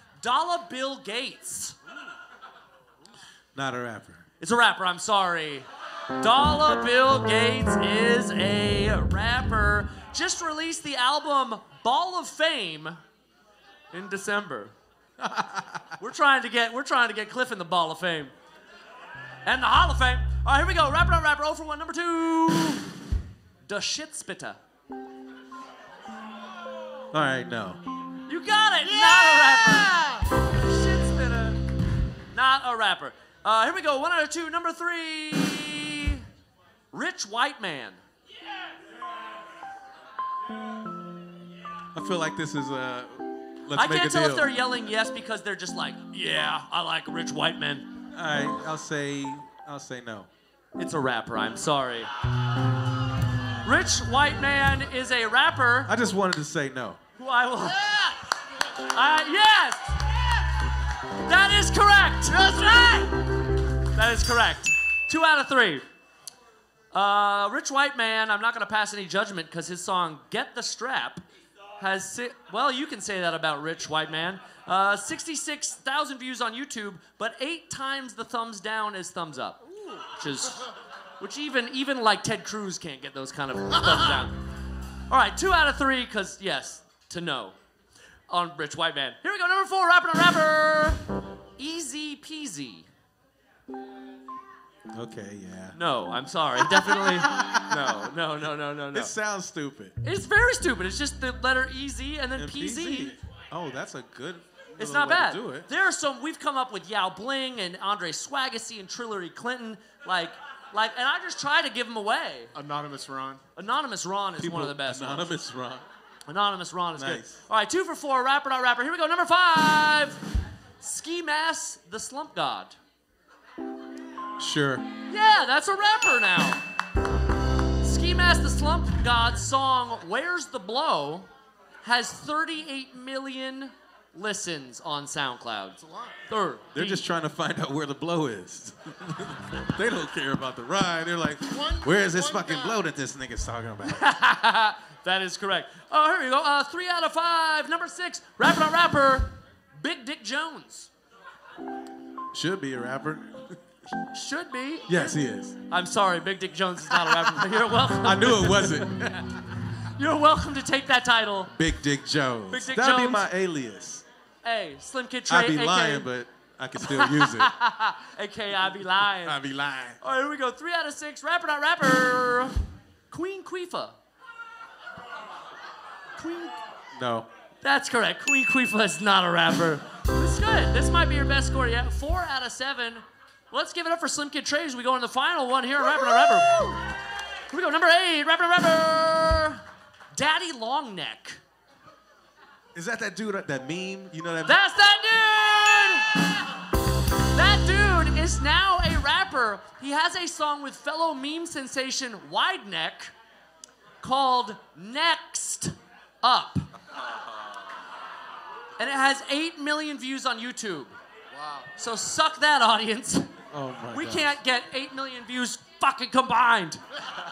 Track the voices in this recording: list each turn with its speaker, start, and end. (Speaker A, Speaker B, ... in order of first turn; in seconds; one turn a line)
Speaker A: 0.2-1.8
Speaker B: 3.5-4.2
Speaker A: 4.4-13.0
Speaker A: 13.9-14.7
Speaker B: 15.2-15.9
Speaker A: 16.0-18.3
Speaker A: 19.4-22.9
Speaker A: 23.6-24.6
Speaker B: 27.1-27.8
Speaker A: 28.3-31.6
Speaker A: 32.3-36.2
Speaker A: 36.9-38.0
Speaker B: 41.9-44.5
Speaker A: 43.7-48.0
Speaker B: 48.1-50.3
Speaker A: 50.8-52.1
Speaker A: 53.6-55.9
Speaker B: 55.9-57.0
Speaker A: 57.2-60.3
Speaker A: 61.1-63.1
Speaker A: 63.9-65.8
Speaker A: 66.9-71.2
Speaker A: 71.8-84.4
Speaker A: 85.1-87.6
Speaker A: 88.3-91.0
Speaker A: 91.6-92.9
Speaker B: 94.9-95.8
Speaker A: 95.7-99.1
Speaker B: 98.9-100.0
Speaker A: 100.0-103.2
Speaker B: 102.4-105.7
Speaker A: 104.8-112.5
Speaker C: 112.5-113.4
Speaker A: 113.5-115.3
Speaker B: 114.4-115.8
Speaker A: 116.2-120.2
Speaker B: 117.0-117.4
Speaker A: 120.8-122.8
Speaker B: 124.4-124.8
Speaker A: 125.1-126.6
Speaker A: 127.8-131.3
Speaker A: 131.8-137.0
Speaker B: 136.7-144.0
Speaker C: 141.6-142.7
Speaker A: 143.8-150.9
Speaker B: 152.3-153.5
Speaker A: 154.1-159.2
Speaker B: 154.9-155.6
Speaker B: 157.8-159.2
Speaker A: 159.8-161.5
Speaker B: 161.5-164.0
Speaker A: 162.5-163.3
Speaker A: 164.4-166.1
Speaker B: 165.3-167.5
Speaker A: 166.8-169.4
Speaker B: 168.9-170.0
Speaker A: 170.0-172.6
Speaker A: 173.1-173.9
Speaker A: 176.2-176.6
Speaker B: 176.9-177.3
Speaker A: 177.6-186.8
Speaker A: 187.5-189.6
Speaker A: 190.1-191.4
Speaker B: 192.7-194.6
Speaker A: 194.4-196.2
Speaker A: 197.3-203.1
Speaker A: 204.0-206.7
Speaker A: 208.8-210.9
Speaker A: 211.7-213.3
Speaker B: 213.5-214.3
Speaker A: 213.9-216.8